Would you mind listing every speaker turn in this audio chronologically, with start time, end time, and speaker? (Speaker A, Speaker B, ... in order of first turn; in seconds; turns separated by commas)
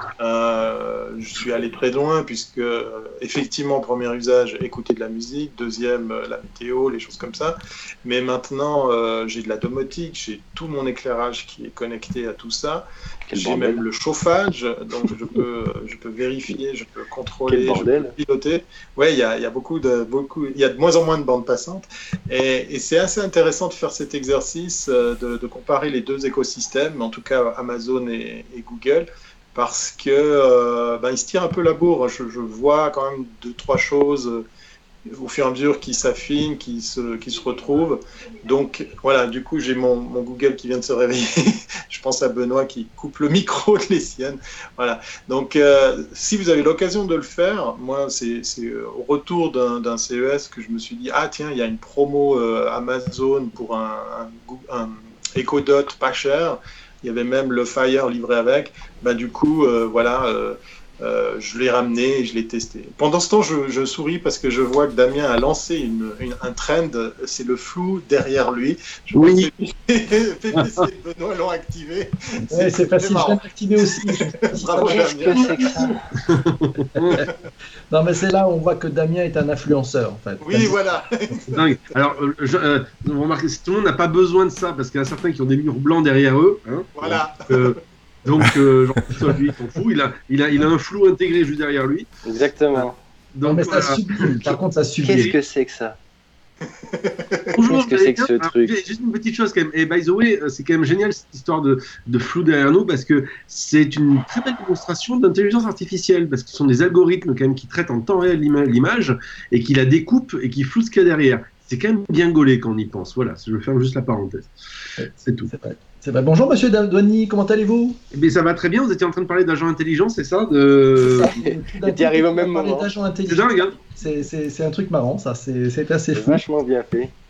Speaker A: 0.2-34.5, Speaker B: 13.3-13.8, Speaker B: 17.5-18.1, Speaker A: 35.1-76.0, Speaker C: 69.1-69.5, Speaker D: 72.5-76.0, Speaker B: 74.8-76.0, Speaker C: 76.2-77.3, Speaker D: 77.0-77.3, Speaker D: 77.9-80.8, Speaker A: 80.4-81.5, Speaker C: 81.5-92.1, Speaker A: 87.0-87.8, Speaker B: 92.2-93.0, Speaker C: 92.8-94.6, Speaker D: 93.4-95.3, Speaker B: 95.0-96.0, Speaker A: 96.9-97.6, Speaker C: 97.5-114.5, Speaker B: 97.7-98.7, Speaker D: 115.0-118.0, Speaker C: 115.1-115.5, Speaker C: 118.1-121.3, Speaker D: 121.0-126.4, Speaker B: 121.4-122.9, Speaker C: 123.3-123.8, Speaker B: 126.2-127.1